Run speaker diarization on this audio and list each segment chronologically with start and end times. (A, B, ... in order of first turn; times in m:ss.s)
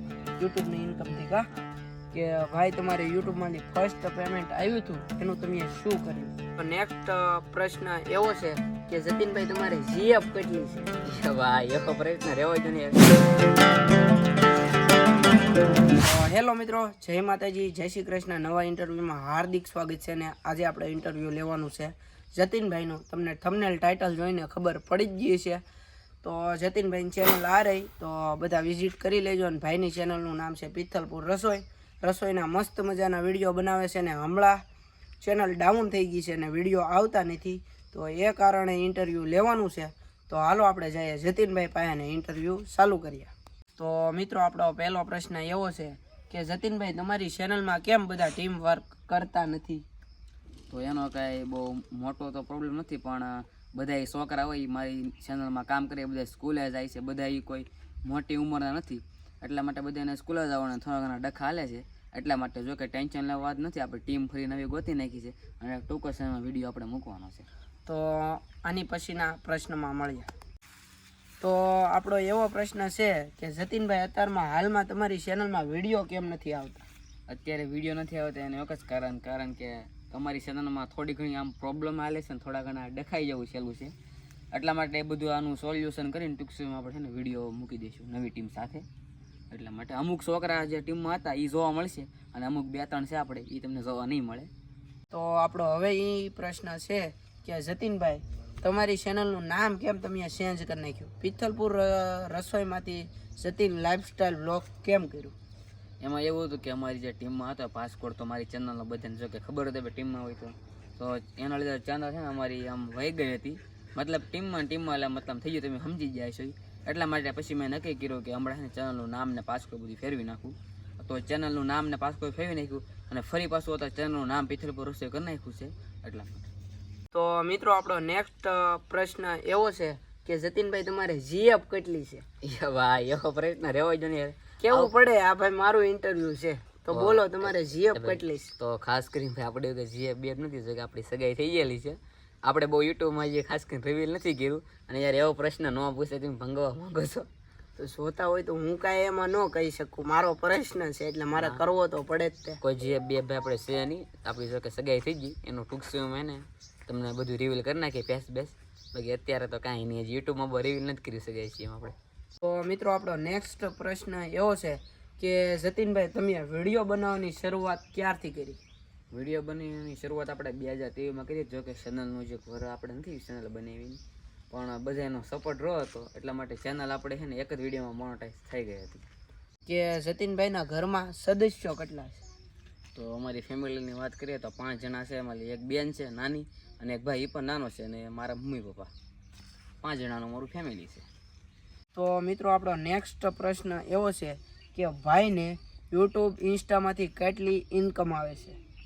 0:00.4-0:01.5 A
0:02.1-0:10.9 A
0:11.0-0:13.1 B
0:15.9-0:25.6 A
0:26.2-0:34.6 A
0:35.2-0:49.8 A
0:50.7-1:07.5 B
1:07.8-1:10.3 A
1:11.4-1:16.8 A
1:17.3-1:23.9 B
1:24.5-1:28.8 B
1:29.5-1:34.5 B
1:35.1-1:45.3 A
1:46.0-2:06.5 B
2:07.1-2:12.2 A
2:12.4-2:14.9 B
2:14.6-2:18.5 A
2:16.9-2:27.3 B
2:27.8-2:32.6 A
2:32.6-2:42.0 B
2:42.4-2:48.6 A
2:49.1-2:54.0 B
2:54.5-2:59.0 B
2:59.6-3:02.2 A
3:02.9-3:08.9 B
3:09.8-3:11.1 B
3:11.9-3:18.6 A